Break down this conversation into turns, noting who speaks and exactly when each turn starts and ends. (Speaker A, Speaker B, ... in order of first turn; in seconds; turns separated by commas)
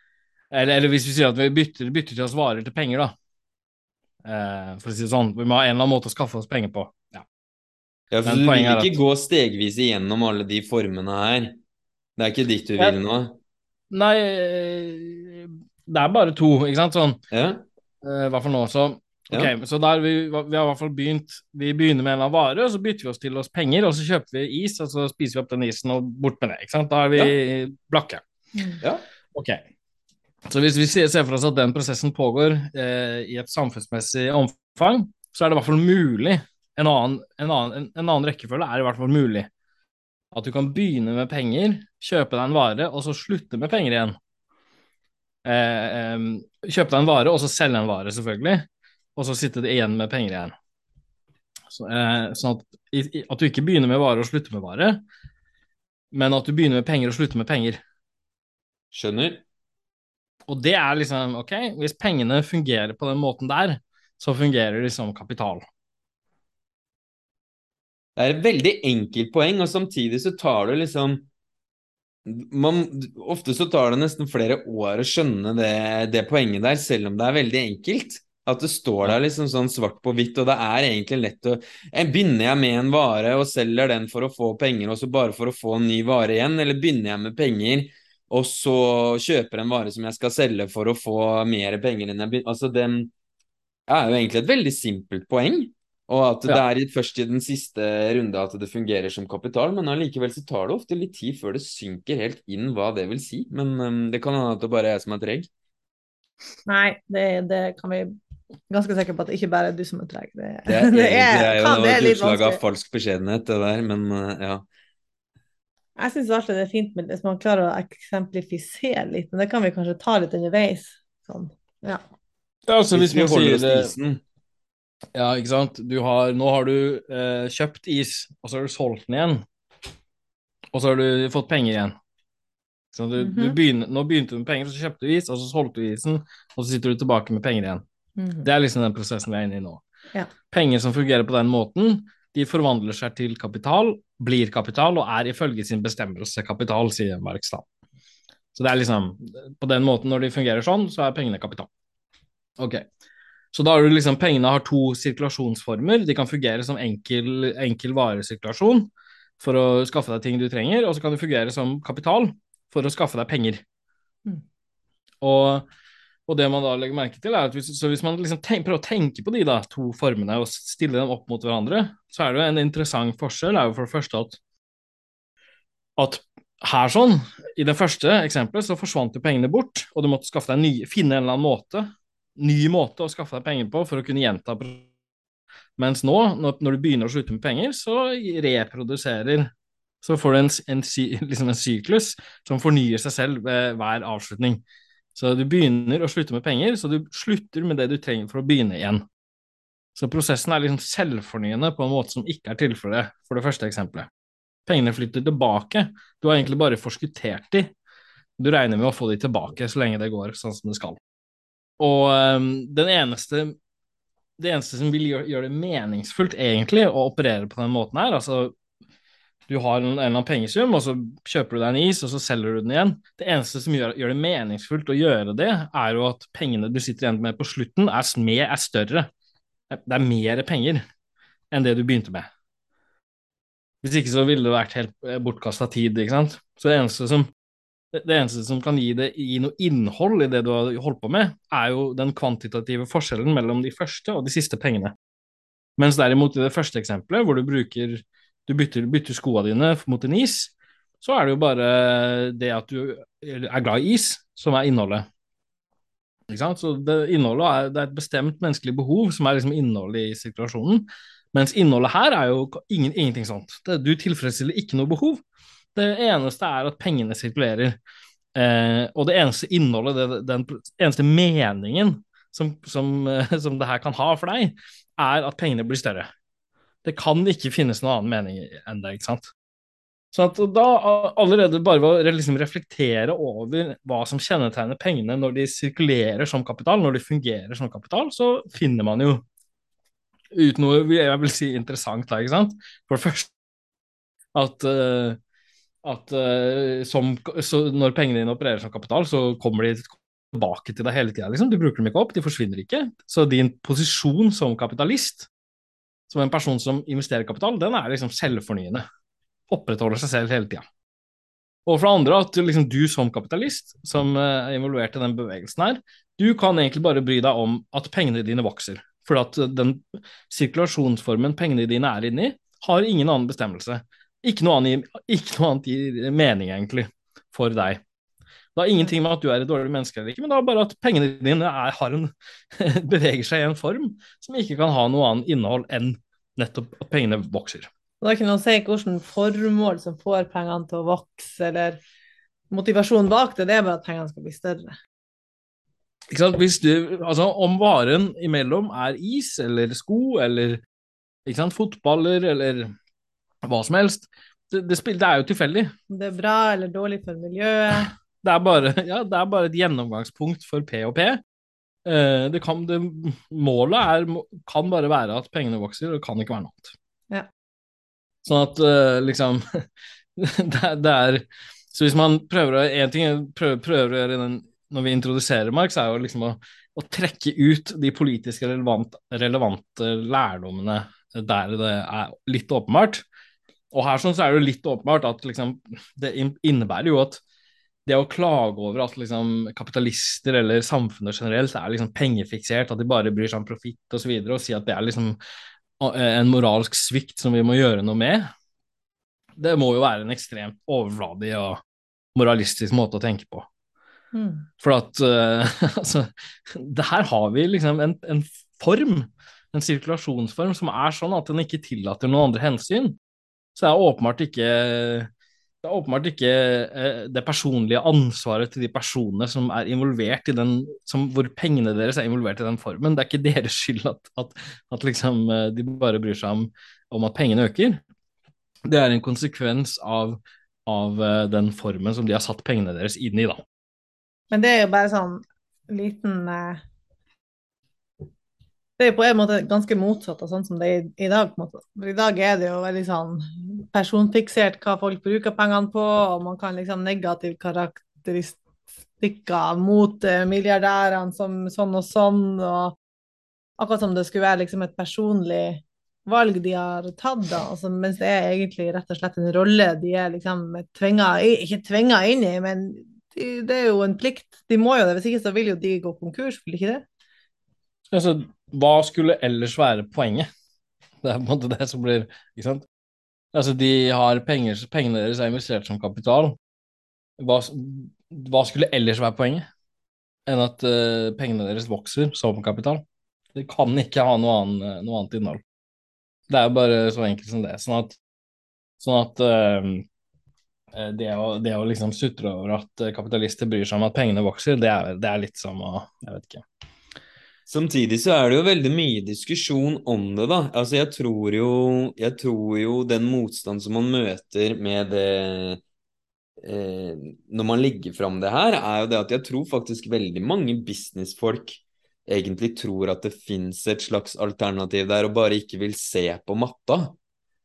Speaker A: 0.5-3.1, Speaker A: 4.2-7.2, Speaker B: 8.1-11.6, Speaker A: 8.2-9.0, Speaker B: 12.2-13.4, Speaker A: 13.9-17.2, Speaker B: 17.3-17.6, Speaker A: 18.0-28.2, Speaker A: 29.3-29.6, Speaker A: 30.5-39.5, Speaker A: 40.3-44.1, Speaker A: 45.4-50.5, Speaker A: 51.7-55.0, Speaker A: 56.1-57.8, Speaker B: 58.9-59.4, Speaker A: 60.5-65.6, Speaker B: 68.2-71.2, Speaker B: 72.2-93.1, Speaker B: 93.9-105.5, Speaker C: 106.7-108.2, Speaker C: 108.7-112.6, Speaker B: 110.7-114.6, Speaker C: 116.0-122.0, Speaker A: 122.7-123.9, Speaker B: 122.9-124.2, Speaker A: 125.1-129.4, Speaker A: 130.7-131.9, Speaker A: 132.9-137.8, Speaker C: 133.2-133.6, Speaker C: 138.2-138.4, Speaker A: 138.4-139.8, Speaker A: 140.5-147.6, Speaker A: 148.5-151.7, Speaker A: 152.6-152.8, Speaker A: 153.5-163.6, Speaker A: 165.2-165.7, Speaker A: 166.3-174.4, Speaker A: 176.0-184.8, Speaker A: 185.8-189.5, Speaker A: 190.0-194.6, Speaker A: 195.1-199.1, Speaker A: 199.9-204.1, Speaker A: 204.7-207.7, Speaker A: 208.4-211.0, Speaker A: 211.8-213.6, Speaker A: 214.4-218.5, Speaker A: 219.5-229.1, Speaker A: 229.7-230.8, Speaker A: 231.5-232.3, Speaker A: 233.8-237.3, Speaker A: 237.9-244.9, Speaker A: 245.8-255.1, Speaker A: 256.3-265.2, Speaker A: 265.7-267.8, Speaker A: 268.3-276.1, Speaker A: 276.8-279.3, Speaker A: 280.1-289.2, Speaker A: 290.3-293.3, Speaker A: 294.3-295.2, Speaker A: 295.8-305.3, Speaker A: 306.1-308.8, Speaker A: 309.5-310.6, Speaker A: 311.6-327.8, Speaker A: 328.5-337.7, Speaker C: 338.0-341.8, Speaker C: 342.5-344.7, Speaker A: 346.1-350.6, Speaker A: 351.2-352.7, Speaker A: 353.4-355.7, Speaker C: 355.9-357.9, Speaker A: 358.2-361.2, Speaker A: 361.8-366.7, Speaker A: 368.2-369.6, Speaker A: 370.2-383.0, Speaker A: 383.7-387.2, Speaker A: 387.9-395.2, Speaker A: 395.8-398.3, Speaker A: 399.4-401.6, Speaker A: 402.1-403.5, Speaker C: 404.1-404.5, Speaker A: 404.6-413.0, Speaker A: 413.5-415.1, Speaker A: 415.6-427.8, Speaker A: 428.7-433.4, Speaker C: 434.3-436.6, Speaker C: 438.8-448.4, Speaker C: 449.0-452.7, Speaker C: 453.6-466.8, Speaker A: 467.9-470.3, Speaker A: 471.0-472.6, Speaker A: 473.3-476.4, Speaker A: 477.2-479.4, Speaker A: 480.2-482.8, Speaker A: 483.3-485.4, Speaker A: 486.3-488.0, Speaker A: 488.8-489.8, Speaker A: 490.7-496.4, Speaker B: 497.5-505.6, Speaker B: 506.4-517.0